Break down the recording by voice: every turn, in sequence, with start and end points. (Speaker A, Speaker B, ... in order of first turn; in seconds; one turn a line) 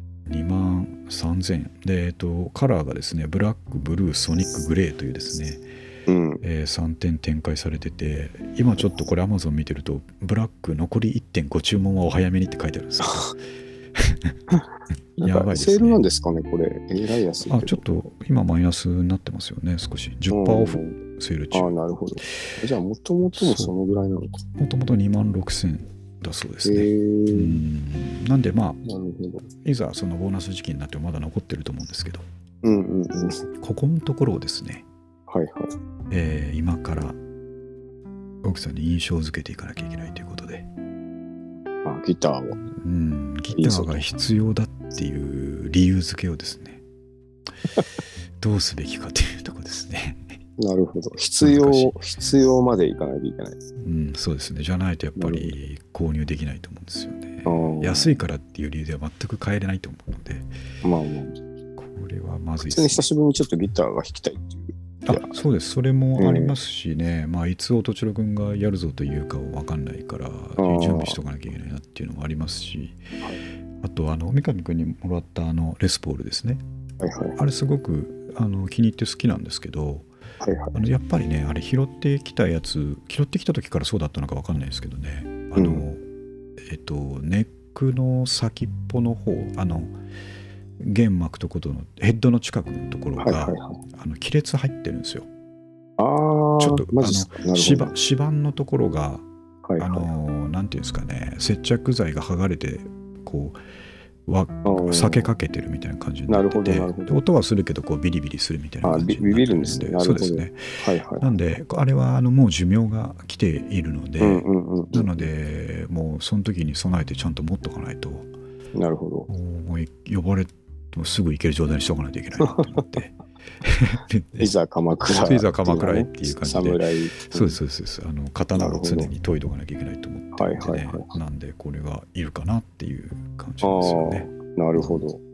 Speaker A: 0.3-5.6
Speaker B: 6.1-6.4
Speaker A: 6.4-13.4
Speaker A: 13.9-14.4
Speaker B: 15.2-17.8
Speaker A: 15.2-16.0
Speaker A: 17.5-21.7
Speaker B: 20.3-21.0
Speaker B: 21.5-24.4
Speaker A: 23.4-23.7
Speaker A: 24.6-28.8
Speaker B: 26.6-27.6
Speaker B: 28.8-29.5
Speaker A: 29.6-32.2
Speaker B: 32.6-33.5
Speaker A: 33.6-34.9
Speaker B: 35.3-35.7
Speaker A: 36.1-37.2
Speaker A: 38.4-40.7
Speaker B: 41.9-42.6
Speaker A: 42.7-46.8
Speaker B: 43.5-44.0
Speaker A: 48.4-50.4
Speaker B: 50.6-53.6
Speaker A: 51.4-52.0
Speaker A: 53.8-60.5
Speaker B: 55.2-55.6
Speaker B: 57.5-58.2
Speaker B: 60.8-61.4
Speaker A: 61.8-63.0
Speaker B: 62.6-65.4
Speaker A: 65.0-73.0
Speaker B: 66.2-66.5
Speaker B: 70.6-71.2
Speaker A: 73.8-76.6
Speaker B: 77.0-77.4
Speaker A: 77.4-80.1
Speaker B: 80.4-80.8
Speaker A: 80.7-86.0
Speaker B: 85.5-85.8
Speaker A: 86.6-89.9
Speaker A: 90.8-95.3
Speaker B: 93.2-93.8
Speaker B: 96.0-97.9
Speaker A: 96.6-99.2
Speaker B: 99.7-100.1
Speaker A: 99.8-103.6
Speaker A: 104.3-110.6
Speaker B: 104.6-105.3
Speaker B: 106.3-107.2
Speaker B: 108.8-111.4
Speaker A: 111.2-118.3
Speaker B: 114.2-115.3
Speaker B: 118.7-119.3
Speaker A: 119.3-124.5
Speaker B: 122.4-123.0
Speaker B: 124.4-127.6
Speaker A: 125.2-135.0
Speaker B: 128.5-129.1
Speaker B: 130.3-131.2
Speaker B: 133.6-135.2